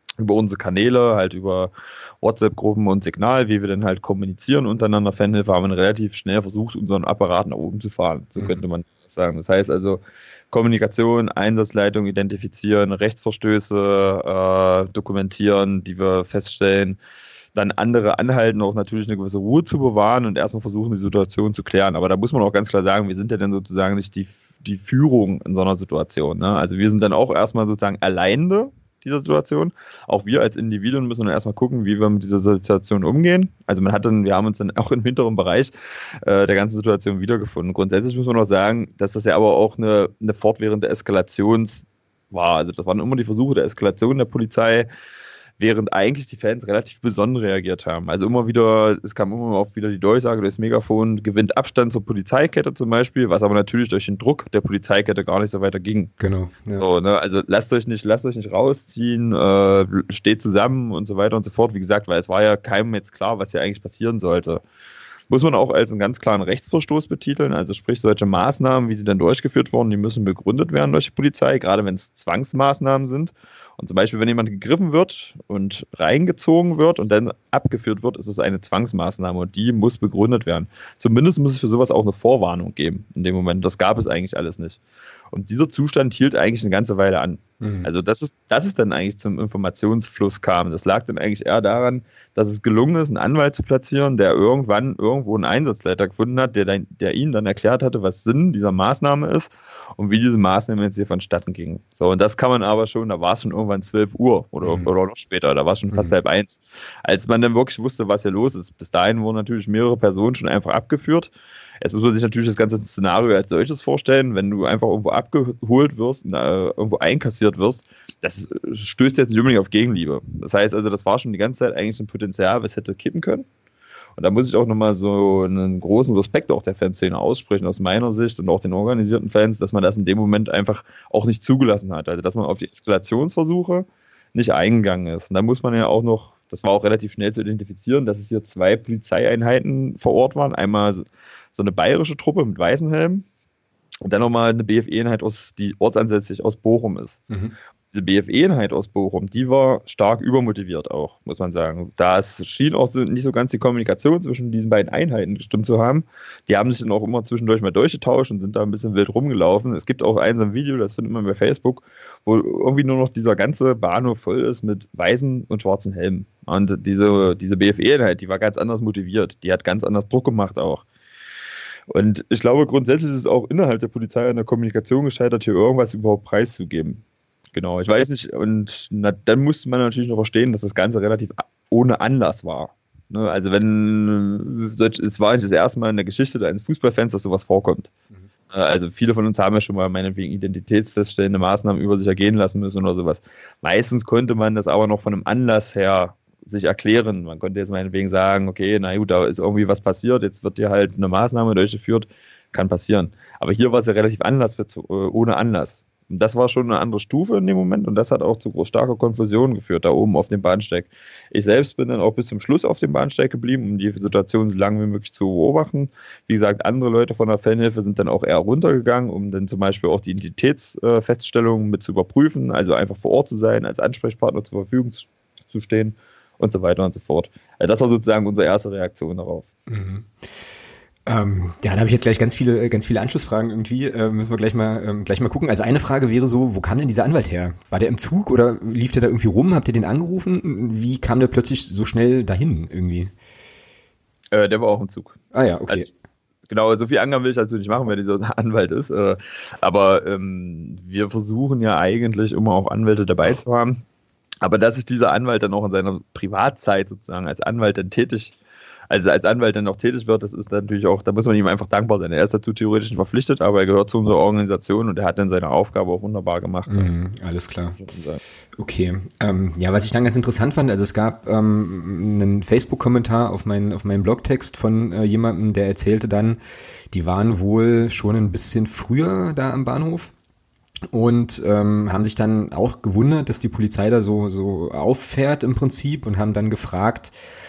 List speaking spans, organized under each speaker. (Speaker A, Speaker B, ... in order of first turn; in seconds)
Speaker A: 0.2-17.0, 17.5-44.9, 45.6-56.1, 56.8-64.6, 65.3-84.8, 85.3-123.5, 124.2-143.2, 144.0-147.2, 147.9-170.8, 171.9-177.0, 177.5-187.9, 188.5-229.5, 244.3-245.9, 246.5-253.8, 254.4-258.4, 258.9-266.9, 267.8-268.2
Speaker B: 8.4-8.6, 56.2-56.9, 87.6-87.9, 104.6-104.9, 147.3-147.5, 229.7-230.5, 231.1-243.1, 245.3-245.9, 266.7-267.8, 268.5-276.4, 276.9-280.1, 280.9-287.1